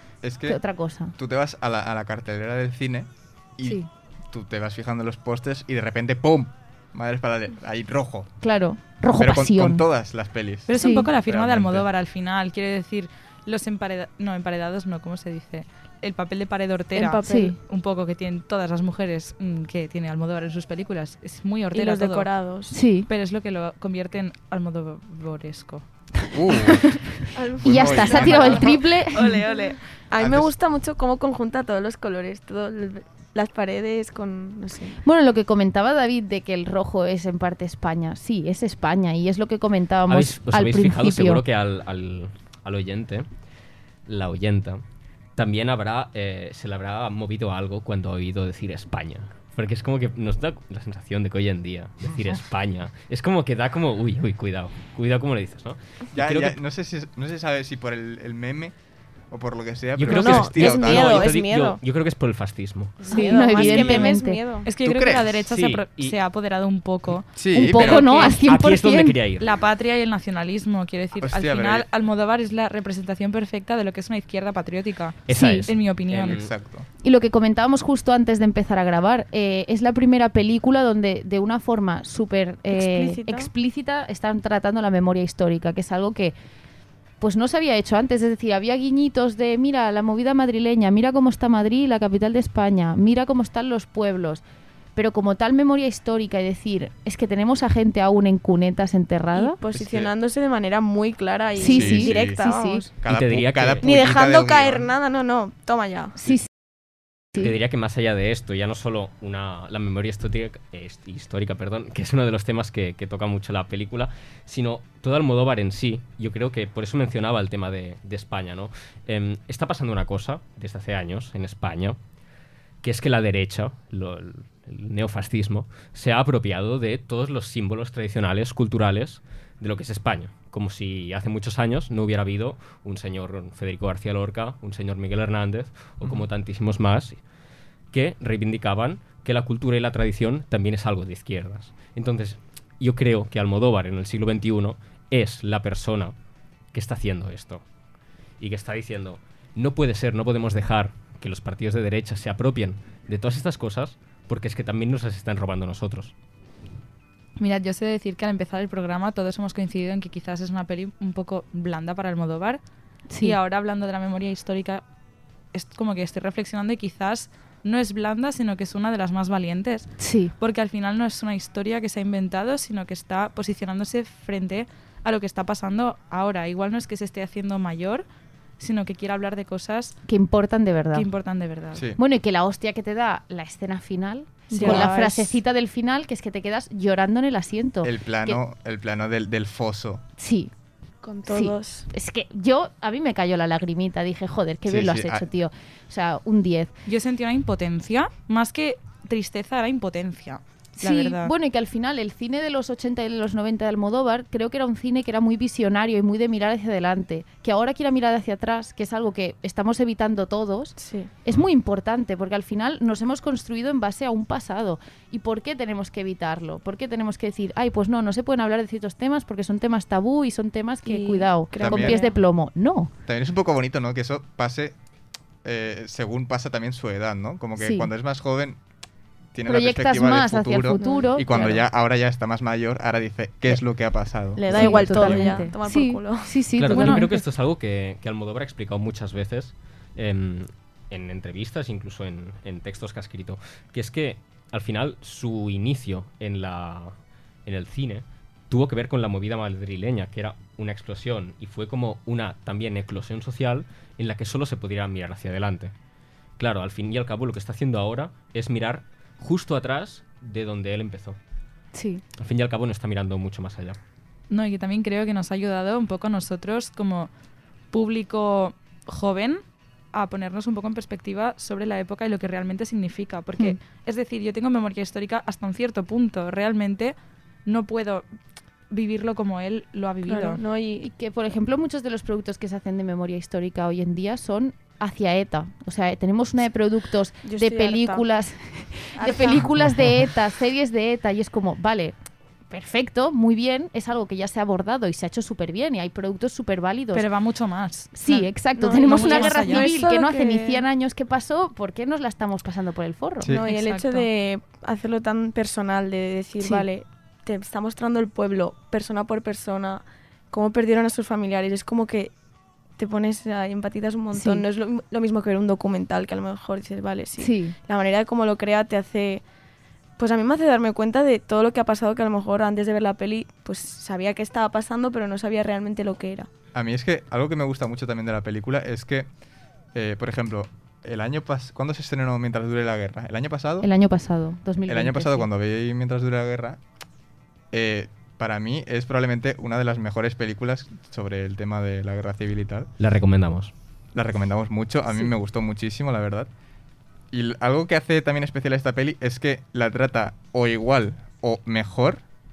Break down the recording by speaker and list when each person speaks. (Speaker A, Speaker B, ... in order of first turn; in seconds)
Speaker A: 0.2-0.6, 1.1-8.3, 9.2-11.9, 26.3-27.1, 27.6-28.8, 30.2-30.5, 56.1-58.8, 59.3-61.4, 64.8-65.5, 67.4-68.3, 71.2-71.9, 76.2-76.9, 99.7-100.1, 101.7-102.4, 103.0-104.9, 181.7-182.0, 187.8-190.0, 194.7-195.2, 221.6-222.0, 223.1-224.8, 225.4-228.6, 229.3-235.3, 303.2-303.5, 326.5-329.1, 329.7-333.7, 334.7-336.6, 337.5-342.7, 343.9-346.3, 347.1-352.0
Speaker B: 0.5-1.1, 8.4-9.9, 10.8-11.1, 17.2-17.6, 22.7-23.1, 27.6-29.4, 35.0-41.4, 63.1-64.4, 67.5-69.2, 75.3-75.7, 77.0-86.3, 87.2-94.4, 95.0-99.6, 101.6-102.8, 163.1-163.4, 170.0-170.3, 180.1-181.1, 182.0-188.4, 190.2-190.5, 191.3-196.7, 200.8-222.9, 227.6-227.9, 229.5-231.6, 234.5-237.2, 261.7-262.0, 280.8-291.9, 292.5-297.0, 297.9-303.4, 314.1-314.4, 317.2-317.6, 333.6-335.3
Speaker C: 10.7-22.3, 23.1-25.8, 64.7-68.4, 69.4-76.4, 157.4-162.6, 163.2-164.8, 165.5-178.1, 178.6-180.0, 180.9-181.9, 184.6-184.9, 196.9-201.3, 264.3-267.1, 267.7-269.4, 269.9-278.1, 278.7-280.4, 296.9-299.7, 303.4-304.1
Speaker D: 17.0-17.6, 21.7-22.8, 27.3-35.0, 60.1-61.8, 63.0-64.7, 82.7-83.5, 99.3-103.0, 103.8-106.2, 184.5-185.4, 191.0-191.9, 210.8-211.1, 220.9-222.2, 230.8-231.1, 234.3-236.4, 280.1-280.9, 287.2-288.1, 298.6-300.6, 303.3-312.1, 312.8-319.2, 320.0-326.3
Speaker E: 40.1-43.3, 44.1-44.8, 45.4-56.6, 60.0-63.1, 65.5-66.2, 68.4-69.5, 75.3-76.5, 103.1-103.9, 107.4-122.0, 122.8-137.2, 137.9-146.2, 146.7-147.6, 148.4-156.1, 236.6-246.9, 247.5-255.7, 256.4-261.2, 262.2-263.8, 342.8-343.5